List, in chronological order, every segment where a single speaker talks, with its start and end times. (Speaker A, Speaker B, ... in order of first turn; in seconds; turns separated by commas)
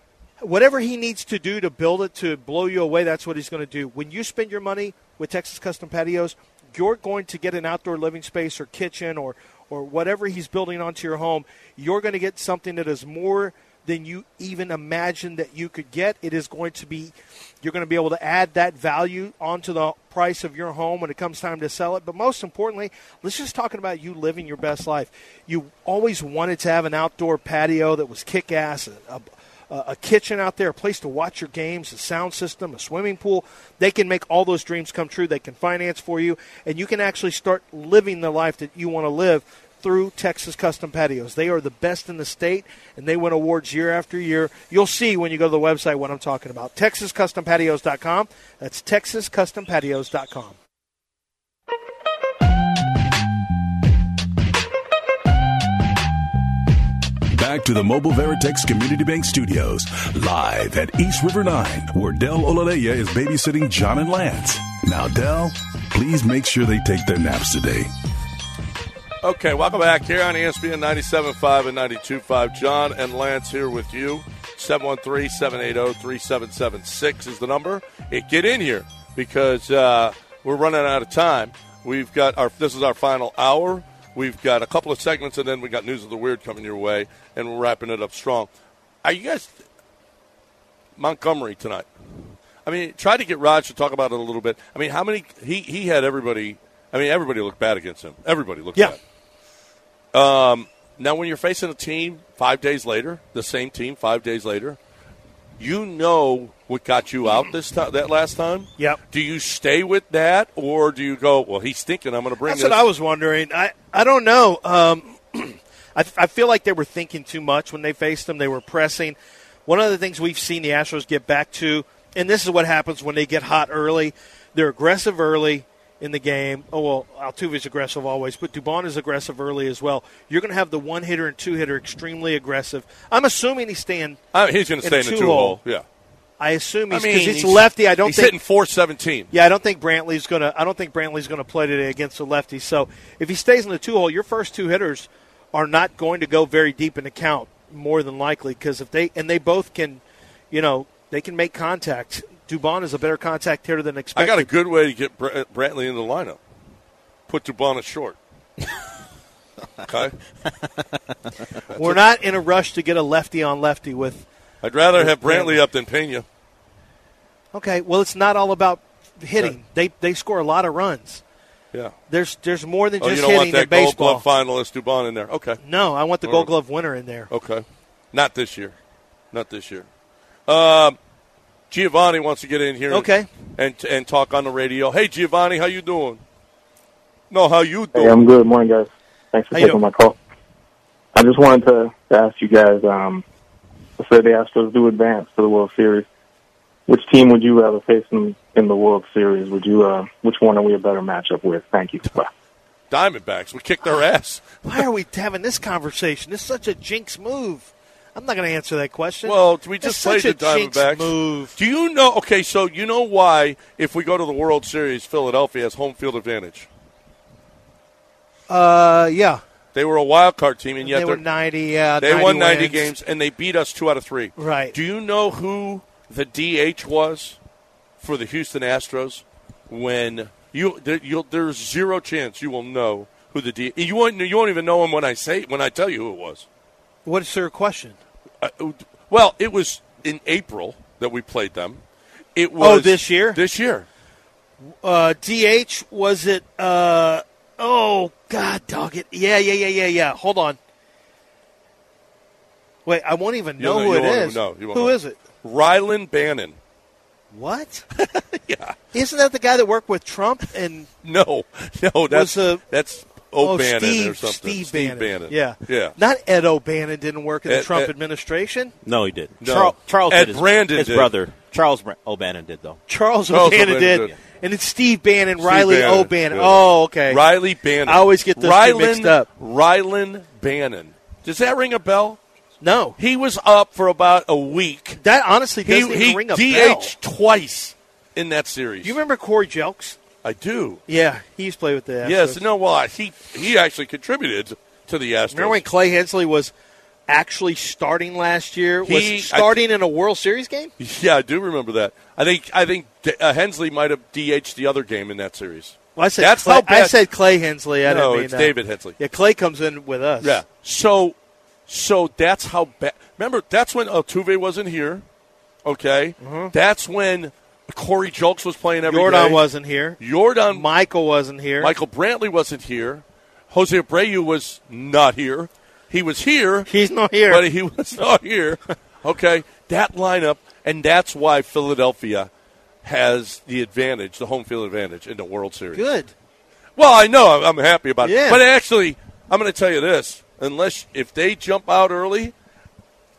Speaker A: 0.4-50.5, Speaker B: 57.3-67.9, Speaker C: 69.2-88.5, Speaker C: 89.0-89.6, Speaker C: 91.0-91.9, Speaker C: 92.6-99.0, Speaker C: 100.1-104.8, Speaker C: 105.6-112.8, Speaker A: 112.4-134.2, Speaker C: 134.3-135.8, Speaker A: 134.8-135.6, Speaker A: 136.4-138.3, Speaker C: 136.9-139.3, Speaker A: 139.3-154.5, Speaker C: 154.1-156.4, Speaker C: 157.3-158.2, Speaker C: 159.8-160.1, Speaker C: 161.7-162.0, Speaker A: 161.7-164.2, Speaker C: 164.6-166.2, Speaker A: 165.0-165.6, Speaker A: 167.5-171.2, Speaker A: 172.1-174.2, Speaker C: 173.0-175.6, Speaker A: 175.6-177.3, Speaker C: 176.2-176.5, Speaker C: 177.3-178.7, Speaker C: 179.3-179.8, Speaker C: 180.5-181.0, Speaker C: 181.7-186.2, Speaker A: 182.9-183.3, Speaker C: 187.3-188.2, Speaker D: 187.9-190.2, Speaker A: 189.5-189.8, Speaker D: 191.1-193.2, Speaker D: 194.0-196.1, Speaker D: 196.9-202.3, Speaker C: 202.9-204.6, Speaker A: 204.6-211.6, Speaker C: 209.2-216.7, Speaker A: 218.5-219.4, Speaker C: 219.7-221.2, Speaker A: 220.8-222.9, Speaker C: 222.0-227.4, Speaker A: 224.4-224.7, Speaker C: 228.0-236.4, Speaker A: 237.0-238.0, Speaker C: 238.4-241.8, Speaker C: 242.3-243.9, Speaker A: 242.6-243.4, Speaker A: 244.8-250.6, Speaker A: 252.8-255.2, Speaker C: 253.6-256.6, Speaker A: 257.3-257.8, Speaker C: 258.0-258.7, Speaker A: 258.9-260.9, Speaker C: 261.0-265.9, Speaker A: 262.1-262.6, Speaker A: 263.4-268.7, Speaker C: 267.5-267.9, Speaker E: 268.8-272.8, Speaker C: 269.4-271.1, Speaker A: 272.9-277.2, Speaker C: 273.3-274.1, Speaker C: 275.4-282.2, Speaker A: 277.9-279.3, Speaker A: 282.6-282.9, Speaker C: 283.0-285.0, Speaker A: 285.0-286.9, Speaker C: 285.6-289.0, Speaker A: 288.8-290.0, Speaker C: 290.2-290.8, Speaker A: 290.9-292.4, Speaker C: 292.0-295.6, Speaker A: 295.3-296.5, Speaker A: 297.1-300.7, Speaker C: 298.8-299.6, Speaker C: 300.8-306.9, Speaker A: 305.9-310.4, Speaker C: 307.8-309.0, Speaker C: 310.2-311.1, Speaker C: 311.7-315.0, Speaker C: 315.6-319.4, Speaker A: 316.2-316.5, Speaker A: 318.9-320.0, Speaker C: 320.0-320.6, Speaker A: 320.5-321.7, Speaker C: 321.6-326.7, Speaker A: 326.7-327.4, Speaker C: 327.3-332.3, Speaker C: 332.8-335.8, Speaker A: 335.7-336.1, Speaker C: 336.8-342.3, Speaker A: 338.0-338.4